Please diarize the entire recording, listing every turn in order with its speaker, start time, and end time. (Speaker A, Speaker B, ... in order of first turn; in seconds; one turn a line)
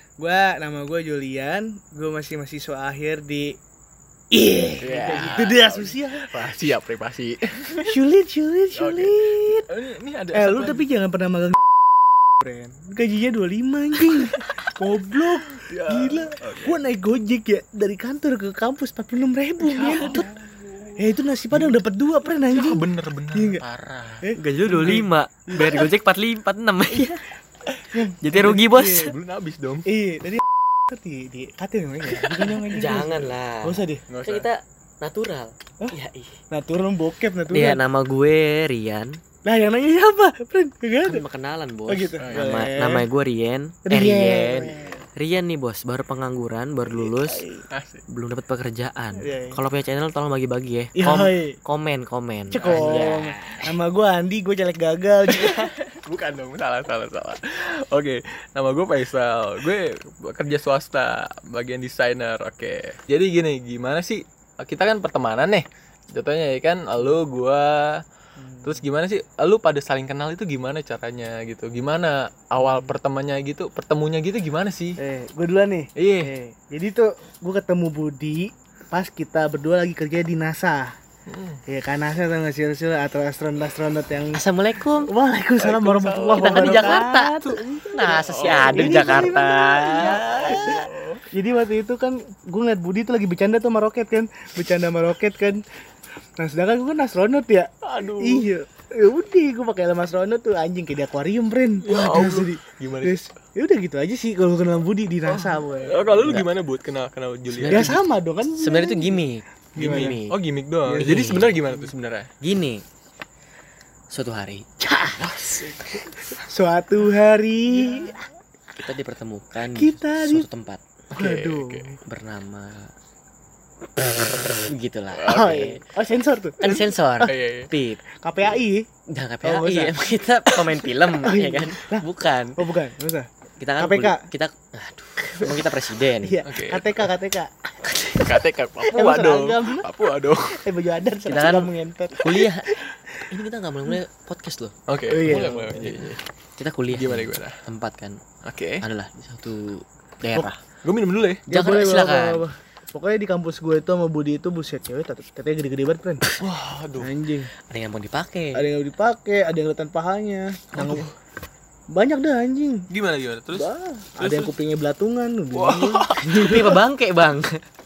Speaker A: 0.2-3.6
Speaker A: 4.3-6.3
Speaker B: 4.8-8.0
Speaker A: 7.9-9.7
Speaker B: 8.8-10.9
Speaker A: 10.3-11.6
Speaker A: 12.4-20.3
Speaker B: 14.4-16.8
Speaker B: 19.6-21.0
Speaker A: 21.0-23.6
Speaker B: 21.5-21.8
Speaker B: 22.4-24.2
Speaker A: 24.2-25.1
Speaker C: 24.4-27.2
Speaker B: 24.8-25.1
Speaker A: 25.6-25.8
Speaker B: 25.6-25.8
Speaker A: 27.9-29.1
Speaker C: 28.2-29.1
Speaker B: 28.8-29.9
Speaker A: 29.9-34.0
Speaker C: 32.4-36.4
Speaker B: 34.1-34.5
Speaker A: 36.5-37.8
Speaker C: 37.5-39.2
Speaker A: 39.5-41.2
Speaker C: 41.0-47.4
Speaker A: 41.9-43.1
Speaker B: 42.2-42.6
Speaker A: 43.9-45.0
Speaker A: 46.9-47.6
Speaker B: 47.7-48.0
Speaker C: 48.1-53.7
Speaker A: 49.2-49.6
Speaker A: 51.0-51.6
Speaker A: 52.5-55.7
Speaker B: 52.6-53.2
Speaker B: 55.3-68.0
Speaker A: 68.4-68.8
Speaker B: 68.6-75.0
Speaker A: 72.6-72.9
Speaker A: 75.0-81.0
Speaker B: 76.0-76.3
Speaker B: 81.3-81.6
Speaker A: 81.7-84.4
Speaker C: 84.3-85.1
Speaker A: 85.1-95.6
Speaker B: 85.6-89.3
Speaker C: 86.3-90.8
Speaker B: 89.9-91.2
Speaker A: 96.4-106.1
Speaker B: 97.8-98.5
Speaker B: 101.8-103.2
Speaker B: 105.3-108.0
Speaker C: 106.2-106.5
Speaker C: 107.5-108.1
Speaker A: 107.7-110.2
Speaker C: 108.6-110.4
Speaker B: 109.8-112.3
Speaker A: 110.9-111.6
Speaker C: 111.0-111.5
Speaker C: 112.4-112.8
Speaker C: 114.1-114.7
Speaker A: 114.8-118.3
Speaker C: 115.2-115.7
Speaker C: 118.8-120.8
Speaker A: 119.7-120.5
Speaker A: 121.1-122.0
Speaker B: 121.1-121.9
Speaker C: 122.0-122.9
Speaker C: 124.6-125.7
Speaker B: 125.1-125.7
Speaker A: 125.3-127.3
Speaker C: 126.6-128.0
Speaker B: 126.7-127.7
Speaker A: 128.1-128.9
Speaker C: 129.1-132.6
Speaker A: 129.4-132.1
Speaker A: 132.6-134.3
Speaker C: 133.6-136.4
Speaker A: 135.3-137.9
Speaker B: 136.4-137.0
Speaker C: 137.8-138.3
Speaker B: 138.2-140.7
Speaker A: 138.9-139.9
Speaker A: 140.5-143.2
Speaker C: 141.3-142.7
Speaker C: 143.3-144.7
Speaker B: 144.9-146.2
Speaker A: 145.1-146.1
Speaker C: 145.3-148.2
Speaker B: 146.9-147.6
Speaker B: 148.4-148.8
Speaker C: 148.8-150.5
Speaker B: 150.3-151.4
Speaker A: 151.5-156.2
Speaker C: 151.5-152.4
Speaker B: 156.4-157.1
Speaker A: 157.0-157.5
Speaker C: 157.7-158.6
Speaker A: 158.6-161.1
Speaker B: 160.7-161.1
Speaker A: 161.9-162.9
Speaker B: 162.9-164.5
Speaker A: 163.5-166.8
Speaker B: 165.5-166.8
Speaker C: 166.2-167.6